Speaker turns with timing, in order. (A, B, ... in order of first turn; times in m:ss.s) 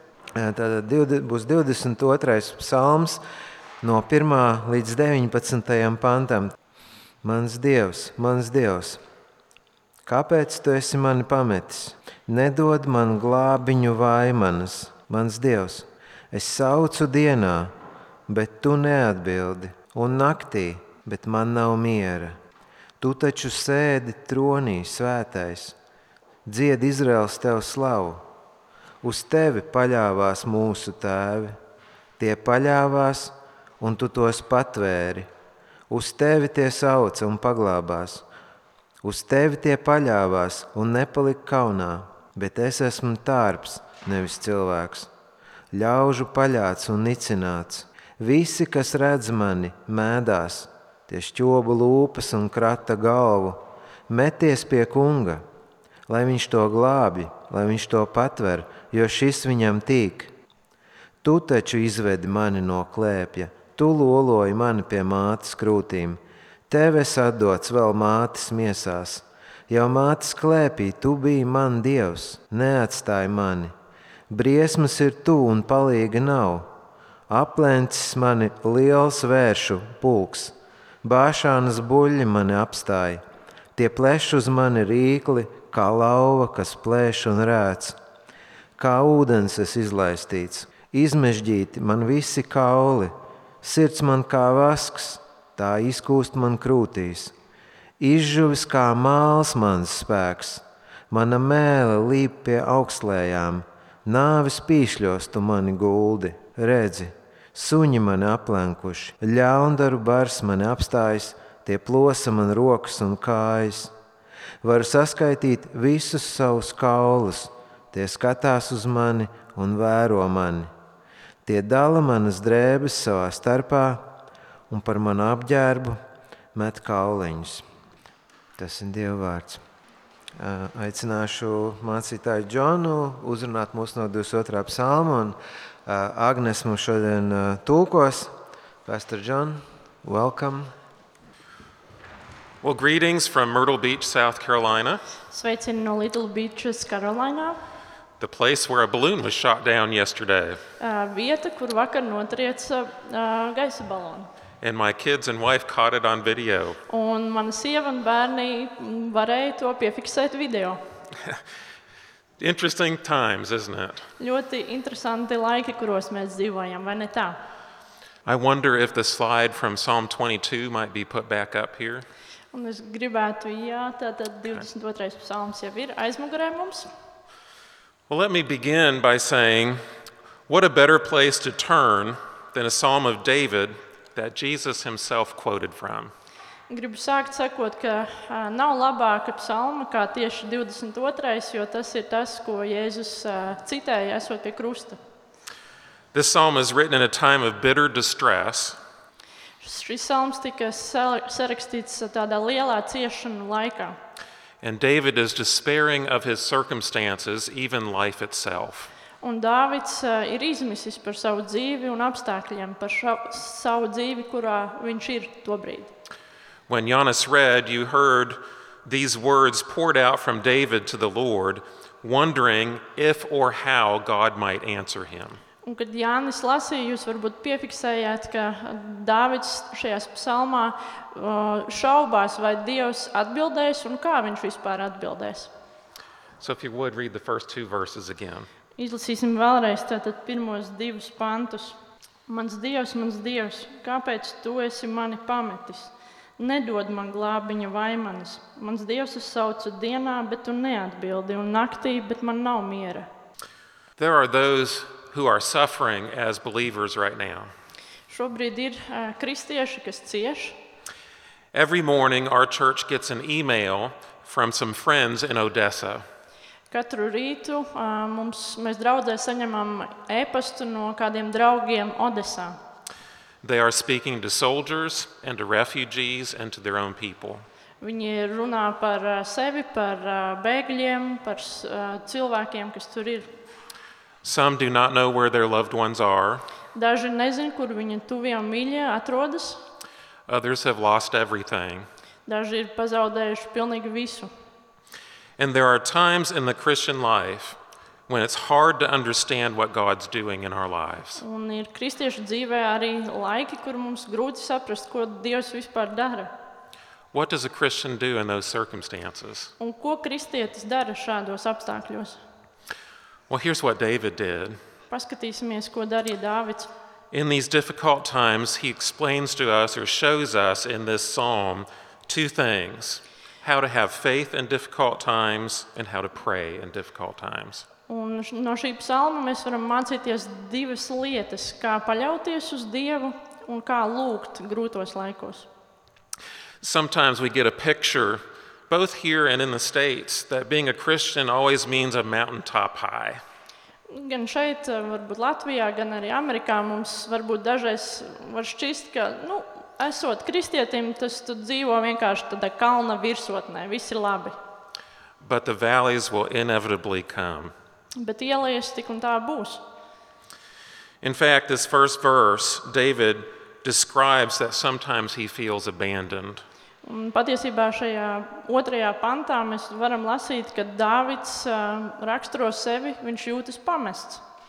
0:00.3-0:03.2 A
0:03.8-0:06.5 A
0:07.2-0:09.0 A
0:10.0-0:17.7 A
0:18.3-0:22.4 A
0:23.0-0:25.7 A
0:26.4-0:28.2 A
0:29.0-0:31.5 A
0:32.2-0:35.3 A
0:35.9-0:38.2 A
0:39.0-0:45.1 A
0:45.7-0:55.4 A
0:56.1-1:00.3 A
1:01.2-1:13.7 A
1:14.3-1:16.7 A
1:17.3-1:23.2 A
1:23.7-1:28.0 A
1:28.8-1:37.3 A
1:38.0-1:53.9 A
1:54.6-2:00.7 A
2:01.4-2:04.1 A
2:04.7-2:06.0 A
2:06.5-2:07.6 A
2:08.6-2:09.6 A
2:10.4-2:18.3 A
2:18.8-2:20.7 A
2:22.6-2:25.0 B
2:25.3-2:27.6 C
2:28.2-2:30.6 B
2:30.8-2:34.3 C
2:34.6-2:36.8 B
2:36.9-2:40.8 C
2:42.4-2:44.1 B
2:44.2-2:47.4 C
2:48.2-2:52.0 B
2:52.5-2:56.9 C
2:58.1-2:59.8 B
3:00.5-3:06.1 B
3:06.7-3:15.0 C
3:16.1-3:18.8 B
3:19.6-3:24.0 C
3:24.6-3:28.9 B
3:29.2-3:35.9 C
3:36.7-3:45.4 B
3:45.6-3:55.5 C
3:56.4-3:58.5 B
3:58.8-4:01.8 C
4:02.3-4:13.1 C
4:14.0-4:17.5 B
4:18.1-4:20.6 C
4:21.5-4:26.0 B
4:26.7-4:32.6 C
4:33.4-4:37.4 B
4:37.8-4:43.3 C
4:44.2-4:46.4 B
4:46.7-4:49.6 C
4:50.3-4:51.9 B
4:52.2-4:54.3 C
4:55.4-5:01.2 B
5:01.2-5:06.3 C
5:07.1-5:09.5 B
5:09.6-5:12.2 C
5:13.3-5:14.6 B
5:14.9-5:16.7 C
5:17.1-5:27.6 B
5:27.9-5:35.5 C
5:36.6-5:43.2 B
5:43.9-5:54.4 C
5:55.2-5:57.5 B
5:58.0-5:59.6 C
6:01.0-6:06.4 B
6:06.8-6:14.2 C